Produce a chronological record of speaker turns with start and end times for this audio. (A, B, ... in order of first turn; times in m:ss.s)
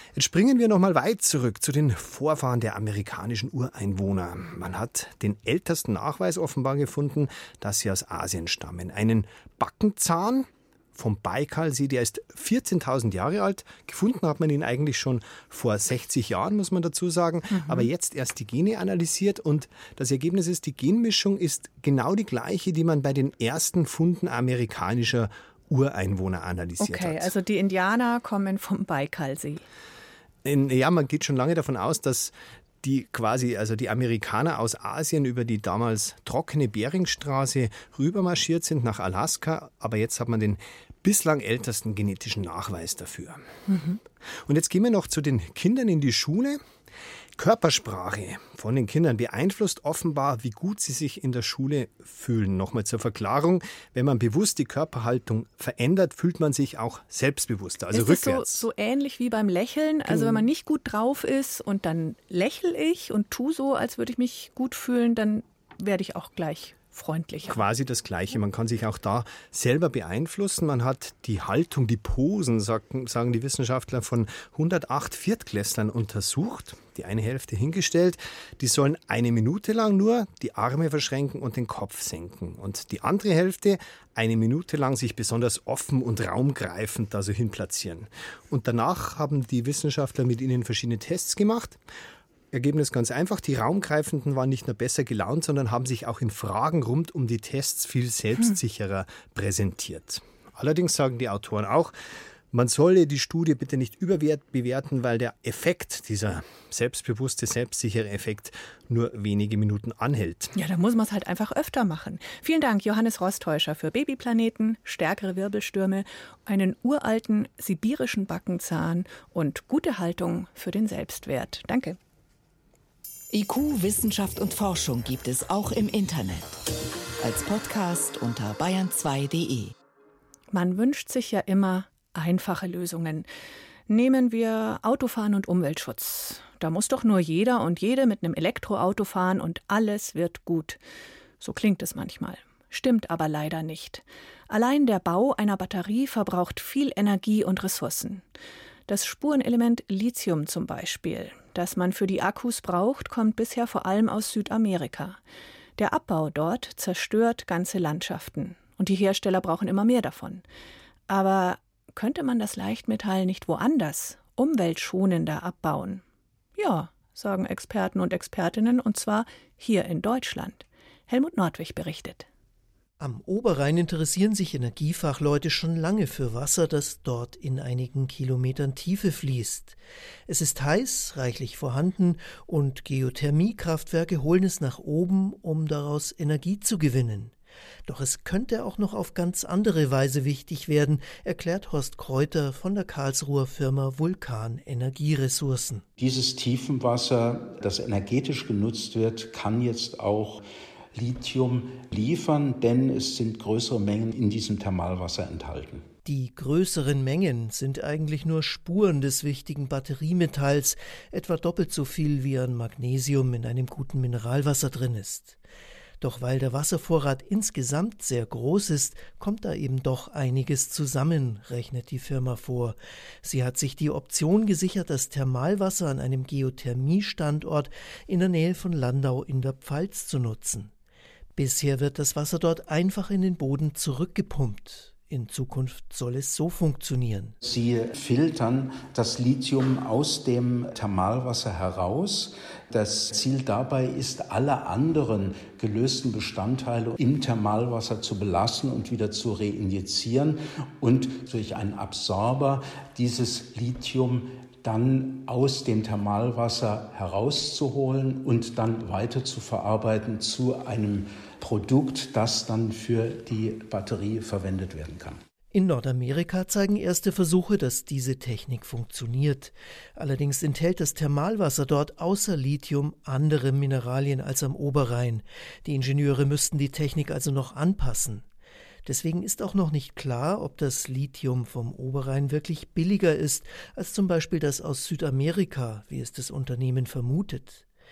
0:00.2-0:27.3 A
0:17.5-0:17.9 B
0:26.8-0:29.6 B
0:30.4-0:43.4 A
0:43.7-0:44.0 B
0:44.5-0:46.6 A
0:47.4-0:58.7 A
0:57.9-1:07.6 B
1:00.1-1:00.5 A
1:07.5-1:31.8 A
1:32.5-1:41.9 A
1:42.5-1:50.5 A
1:50.6-2:02.0 B
2:03.3-2:06.6 C
2:07.2-2:09.7 C
2:10.5-2:13.3 B
2:13.9-2:20.8 B
2:21.4-2:28.2 B
2:28.9-2:35.2 B
2:35.8-2:40.4 B
2:41.1-2:46.0 B
2:46.6-2:52.3 B
2:53.0-3:07.4 D
3:07.9-3:15.8 D
3:16.0-3:25.9 E
3:26.0-3:35.4 D
3:36.0-3:50.7 D
3:51.4-3:57.4 D
3:57.4-4:25.2 E
4:25.5-4:38.2 D
4:38.8-4:47.6 D